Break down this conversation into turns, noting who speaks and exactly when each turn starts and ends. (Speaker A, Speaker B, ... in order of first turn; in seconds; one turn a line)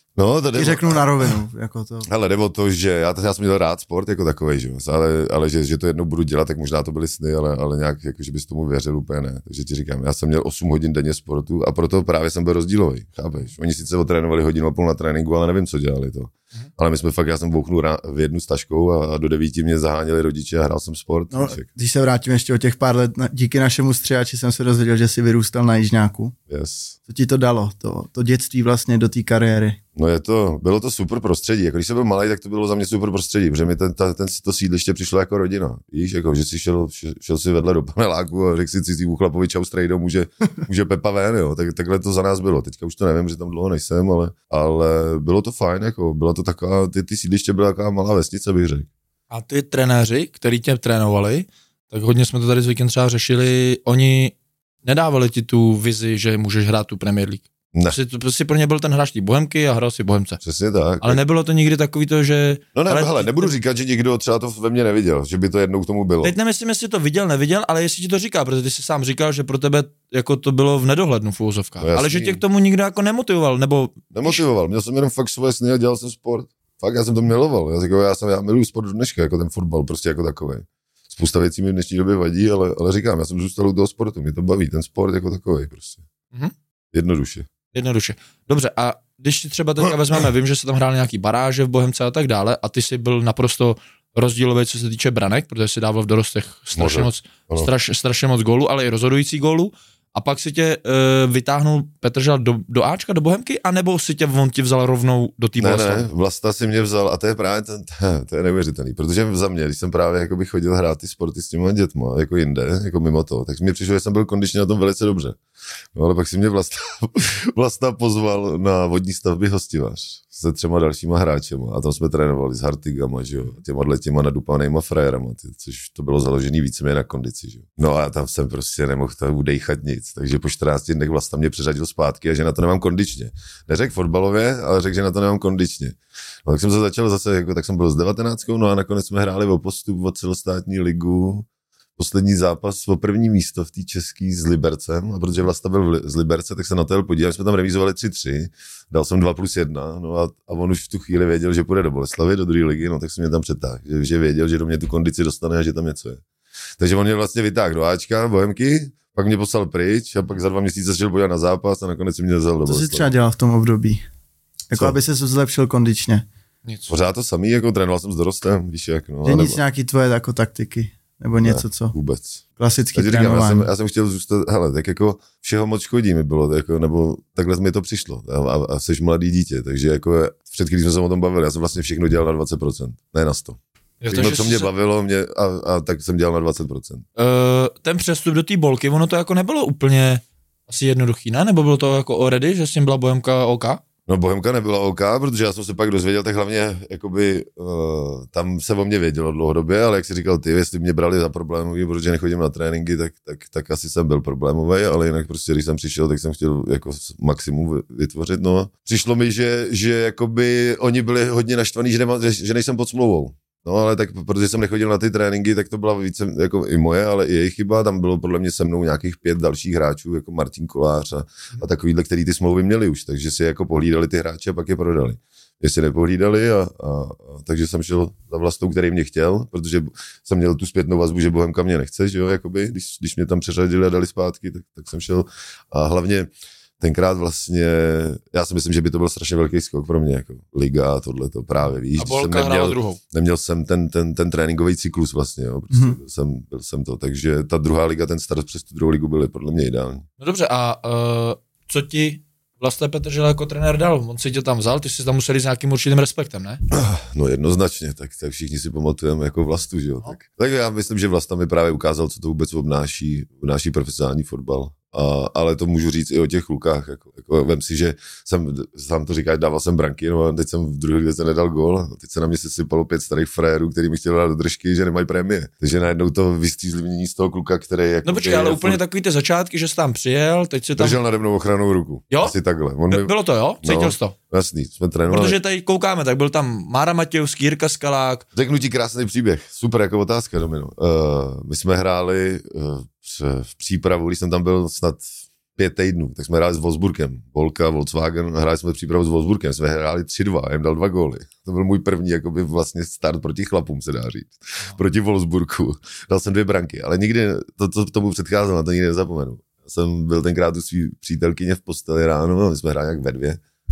Speaker A: 0.2-1.4
Speaker B: 0.5-2.1
Speaker A: 2.1-21.6
Speaker B: 21.3-26.4
Speaker A: 26.5-27.0
Speaker B: 27.1-29.8
Speaker A: 30.0-48.9
Speaker C: 49.3-60.4
Speaker A: 60.4-61.2
Speaker C: 61.0-63.5
Speaker A: 62.8-66.3
Speaker C: 66.2-74.4
Speaker A: 71.8-72.4
Speaker A: 74.1-86.0
Speaker A: 86.9-87.5
Speaker C: 87.7-106.1
Speaker A: 96.8-97.7
Speaker A: 105.6-115.4
Speaker A: 116.0-141.5
Speaker A: 142.0-156.2
Speaker A: 156.8-163.1
Speaker B: 162.7-164.0
Speaker B: 164.7-166.2
Speaker A: 166.9-169.6
Speaker B: 169.2-171.9
Speaker A: 171.4-172.4
Speaker B: 172.6-173.7
Speaker A: 172.9-183.6
Speaker C: 184.0-184.7
Speaker A: 184.1-187.0
Speaker C: 187.2-193.8
Speaker A: 194.1-236.3
Speaker A: 236.8-250.1
Speaker C: 241.9-243.0
Speaker B: 245.7-246.0
Speaker C: 250.2-256.6
Speaker A: 256.7-278.8
Speaker C: 278.0-281.0
Speaker A: 280.8-285.4
Speaker C: 282.1-282.4
Speaker C: 282.9-284.1
Speaker C: 285.1-288.2
Speaker A: 288.4-313.4